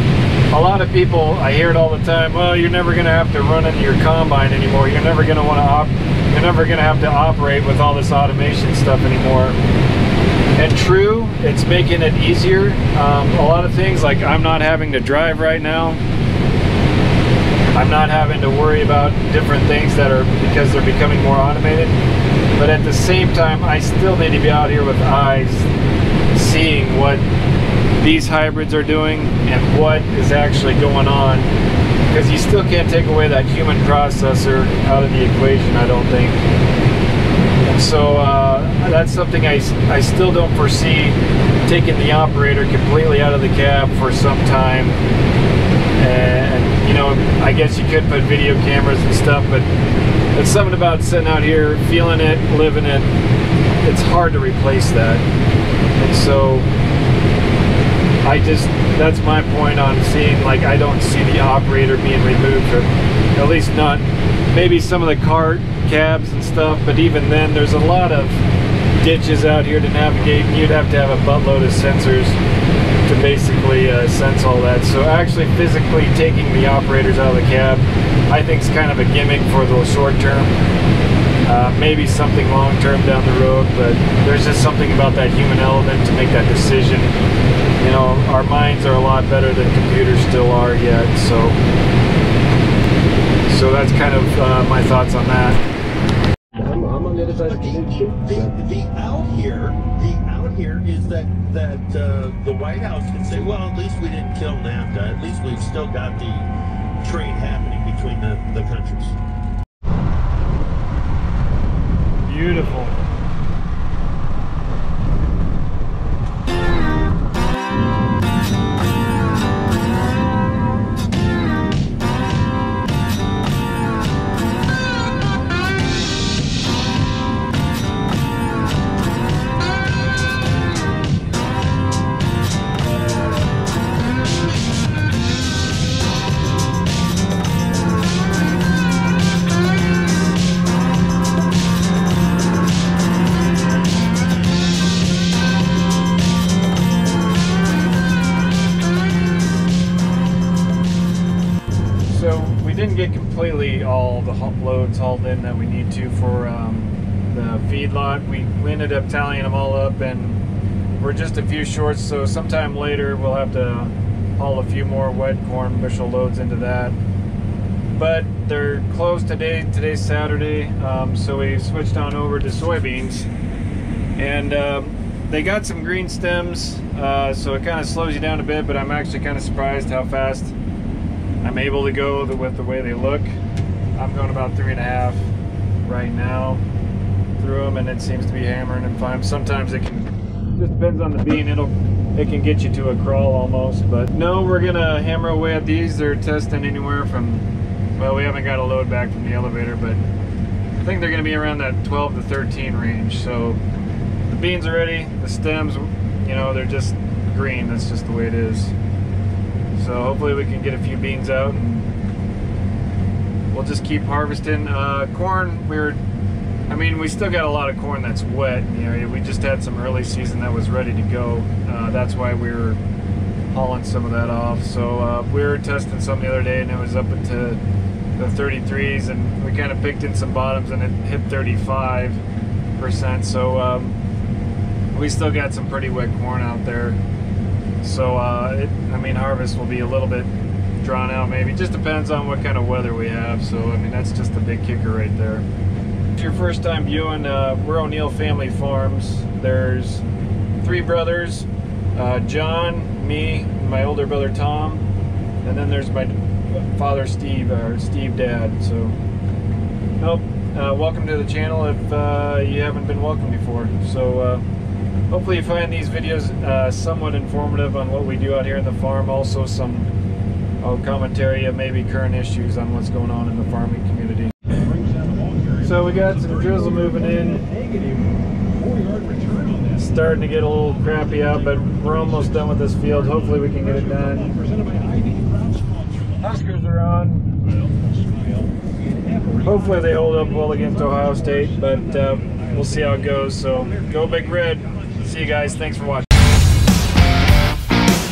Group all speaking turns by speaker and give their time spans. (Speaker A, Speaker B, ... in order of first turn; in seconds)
Speaker A: 0.5-9.6, 10.6-16.0, 17.7-21.9, 22.5-25.7, 26.3-27.2, 28.0-31.5, 32.1-36.4, 37.6-45.0, 46.0-49.7, 50.3-53.1, 53.8-55.2, 56.0-56.7, 58.2-68.4, 69.0-72.4, 73.0-80.5, 81.5-87.1, 87.8-91.6, 93.5-95.6, 112.2-112.9, 152.0-160.4, 161.0-166.9, 167.9-173.3, 174.2-180.5, 181.4-183.3, 183.9-185.3, 185.8-186.6, 187.4-197.4, 198.0-200.0, 200.8-203.6, 204.2-208.7, 209.7-211.9, 213.5-216.0, 216.7-222.8, 223.5-227.6, 228.2-232.2, 232.8-234.0, 234.9-237.0, 237.8-245.4, 246.1-250.0, 250.6-254.8, 255.4-259.0, 260.0-264.4, 265.1-269.9, 270.6-274.5, 275.6-277.4, 279.7-284.4, 286.1-287.3, 289.4-296.1
Speaker B: 96.6-98.5, 274.7-275.6, 277.4-279.6, 284.4-285.6, 288.1-288.4
Speaker C: 97.3-106.5, 107.0-109.2